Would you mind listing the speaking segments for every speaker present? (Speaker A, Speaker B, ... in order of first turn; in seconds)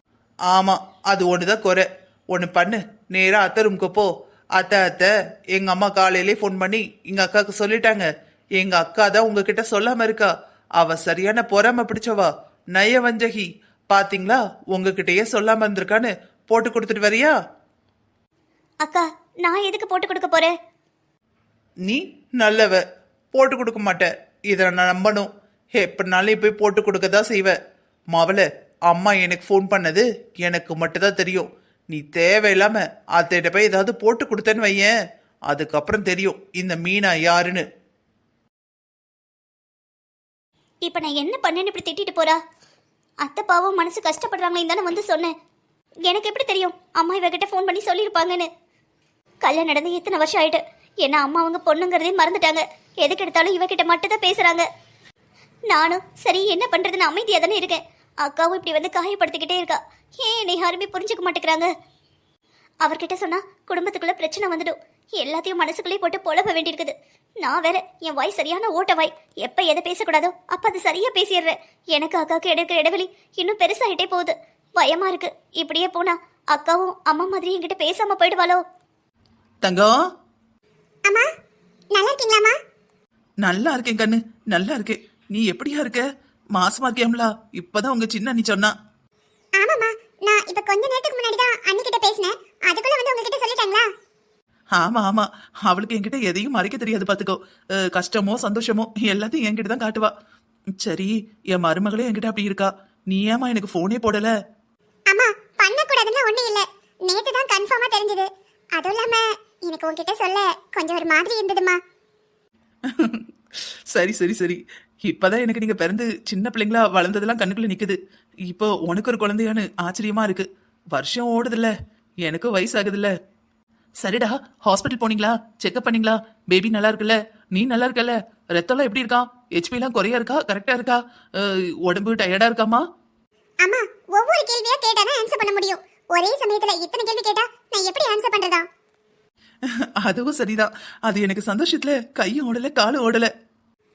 Speaker A: 0.5-17.3, 21.9-22.8, 23.3-27.6, 28.1-34.9, 35.5-37.6, 79.6-79.9, 83.4-86.0, 86.5-88.7, 94.8-100.1, 100.8-104.3, 112.9-113.2, 113.9-121.7, 122.2-123.1, 124.0-132.8, 140.0-143.3
Speaker B: 18.8-20.5, 40.8-42.4, 43.2-45.3, 46.0-48.5, 49.4-54.6, 55.7-61.7, 62.8-78.6
Speaker C: 81.9-82.5, 89.6-93.8, 105.1-111.8, 133.6-138.6